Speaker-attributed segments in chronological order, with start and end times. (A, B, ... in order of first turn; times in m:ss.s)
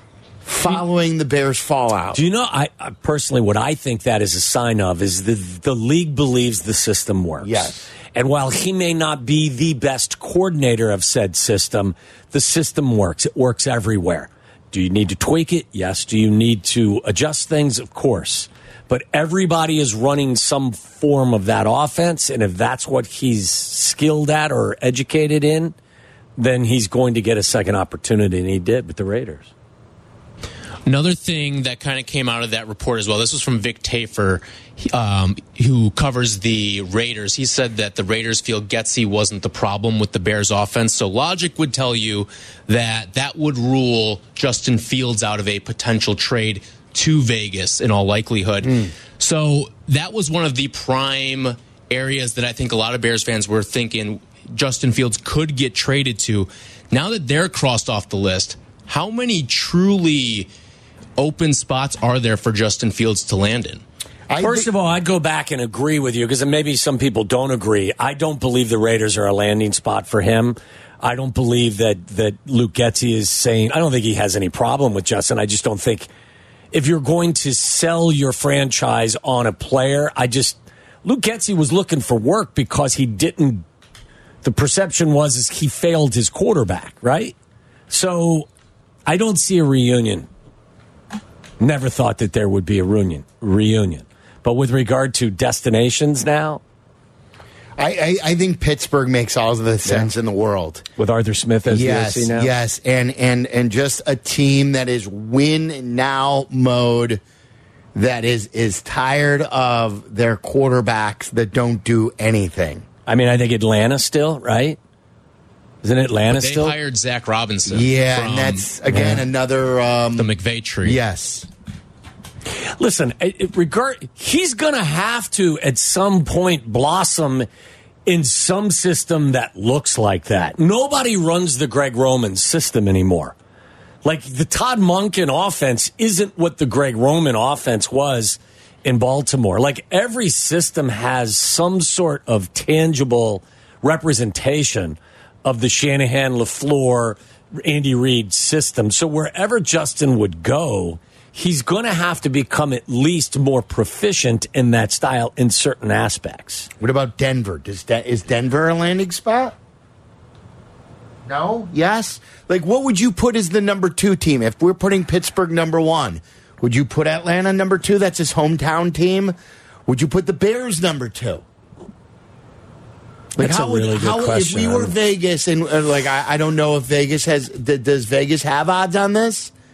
0:00.4-0:02.2 A
0:02.1-0:25.7 B
0:07.4-0:07.9 A
0:26.4-0:29.5 B
0:30.8-1:00.5 C
1:01.2-1:03.8 C
1:04.3-1:04.7 A
1:04.4-1:16.1 B
1:16.7-1:23.6 B
1:24.4-1:27.3 B
1:27.9-1:28.5 B
1:29.0-1:30.3 B
1:31.6-1:36.6 B
1:37.8-1:40.9 A
1:41.0-1:42.5 B
1:41.7-1:47.2 A
1:47.9-1:52.8 A
1:53.0-1:54.8 B
1:55.8-1:56.8 B
1:56.3-1:58.7 C
1:57.7-2:00.3 A
1:58.9-1:59.2 B
2:00.2-2:01.0 C
2:00.8-2:01.5 A
2:02.8-2:07.5 B
2:08.0-2:13.3 B
2:14.0-2:36.7 B
2:36.8-2:39.5 A
2:41.2-2:51.4 A
2:53.4-2:59.5 A
2:53.4-2:54.9 B